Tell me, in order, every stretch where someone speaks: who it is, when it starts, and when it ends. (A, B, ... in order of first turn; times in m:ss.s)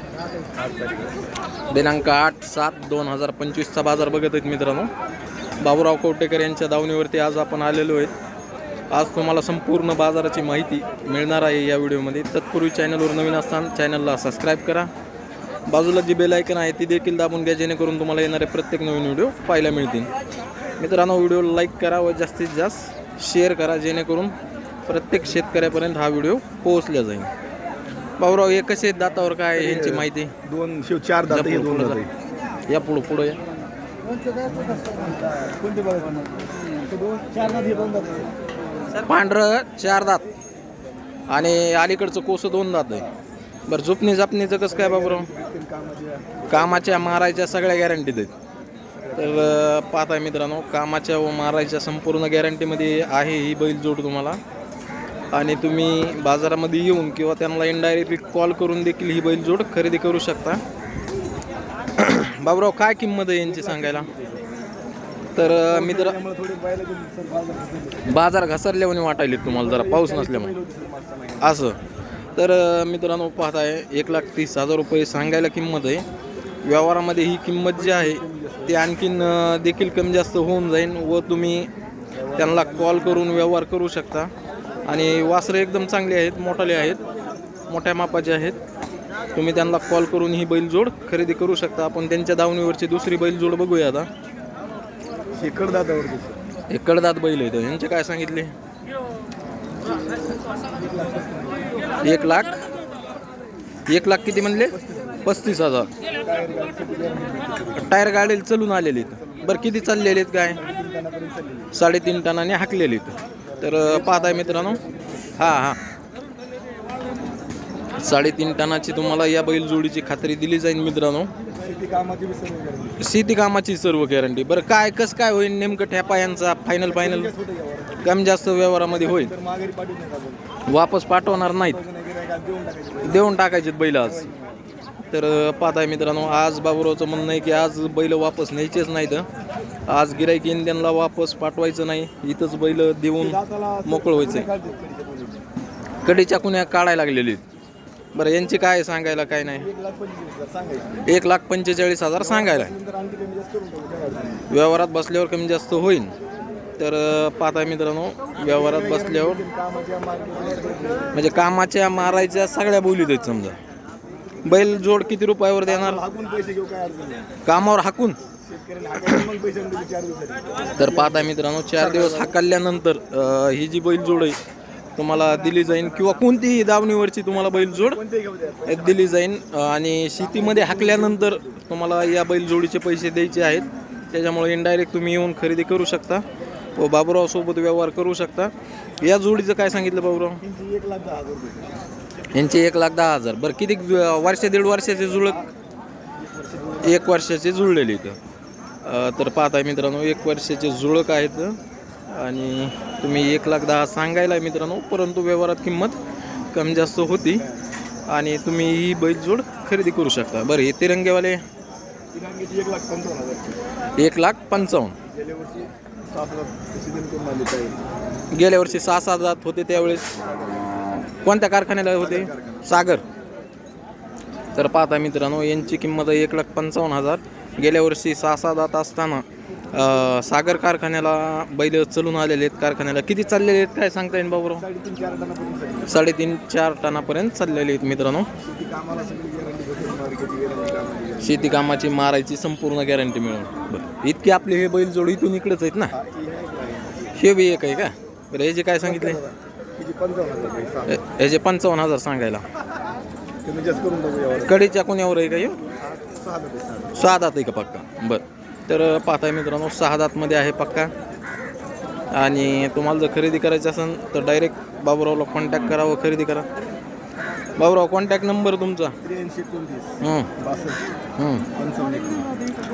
0:00.5-0:01.1 A
0:01.7-0:04.9 B
0:05.6-0:08.1 B
0:08.9-0:14.9 B
0:15.7-0:20.1 B
0:20.8-0:24.4 B
0:24.9-0:27.3 B
0:28.2-0:30.3 B
0:29.5-0:32.1 A
0:31.3-0:32.0 B
0:32.7-0:33.4 B
0:34.6-0:38.3 A
0:38.9-0:40.2 B
0:41.3-0:43.0 B
0:43.7-0:45.3 B
0:44.7-0:47.2 A
0:46.5-0:48.3 B
0:48.9-0:49.7 A
0:49.2-0:54.4 B
0:55.3-1:00.6 B
1:02.0-1:04.1 B
1:03.4-1:04.5 A
1:05.4-1:06.2 B
1:05.4-1:08.2 A
1:08.1-1:10.6 B
1:09.4-1:11.6 A
1:11.4-1:11.8 B
1:12.4-1:16.0 B
1:16.6-1:21.7 B
1:17.8-1:18.8 A
1:22.2-1:23.6 A
1:22.4-1:24.3 B
1:24.9-1:27.0 B
1:27.7-1:28.6 B
1:29.3-1:34.1 B
1:35.4-1:36.4 A
1:36.7-1:38.5 B
1:40.8-1:41.8 A
1:42.0-1:42.6 B
1:43.9-1:45.9 B
1:44.7-1:45.3 A
1:46.2-1:48.0 A
1:47.8-1:50.6 B
1:48.9-1:49.8 A
1:50.5-1:51.7 A
1:51.7-1:54.8 B
1:53.5-1:55.7 A
1:55.4-1:55.8 B
1:58.0-2:01.3 B
2:01.5-2:03.0 A
2:03.0-2:07.3 B
2:06.9-2:10.4 A
2:08.0-2:09.3 B
2:10.7-2:11.8 B
2:11.4-2:13.3 A
2:13.0-2:14.3 B
2:14.0-2:14.6 A
2:15.1-2:19.3 B
2:19.9-2:24.5 B
2:23.2-2:25.4 A
2:26.0-2:27.4 B
2:28.1-2:29.7 B
2:29.5-2:31.1 A
2:31.1-2:32.7 B
2:32.2-2:34.5 A
2:34.5-2:36.1 B
2:36.8-2:39.4 B
2:38.4-2:41.2 A
2:41.1-2:43.6 B
2:44.4-2:46.0 B
2:45.6-2:47.3 A
2:47.4-2:48.2 B
2:48.4-2:52.4 A
2:50.8-2:54.4 B
2:55.0-2:58.0 B
2:57.5-2:59.2 A
2:58.7-3:06.2 B
3:00.2-3:01.6 A
3:06.8-3:10.4 B
3:10.4-3:11.8 A
3:12.3-3:15.4 B
3:16.2-3:17.0 A
3:16.8-3:18.2 B
3:18.8-3:21.6 B
3:22.1-3:26.0 B
3:26.5-3:27.4 B
3:27.3-3:27.6 A
3:28.1-3:31.4 B
3:32.1-3:33.6 A
3:34.0-3:35.0 B
3:35.1-3:37.8 A
3:38.3-3:40.1 B
3:38.7-3:38.9 A
3:40.1-3:40.7 A
3:41.2-3:43.0 B
3:42.0-3:42.8 A
3:44.6-3:54.6 B
3:54.6-3:56.0 A
3:55.9-3:58.3 B
3:58.4-4:01.6 A
4:01.2-4:06.0 B
4:05.9-4:07.2 A
4:07.2-4:09.2 B
4:08.8-4:11.0 A
4:10.9-4:12.4 B
4:13.4-4:14.6 A
4:14.5-4:15.6 B
4:15.8-4:17.1 A
4:17.0-4:20.9 B
4:22.1-4:26.5 B
4:27.6-4:29.0 B
4:29.0-4:30.9 A
4:30.0-4:30.3 B
4:31.2-4:31.5 B
4:31.5-4:32.3 A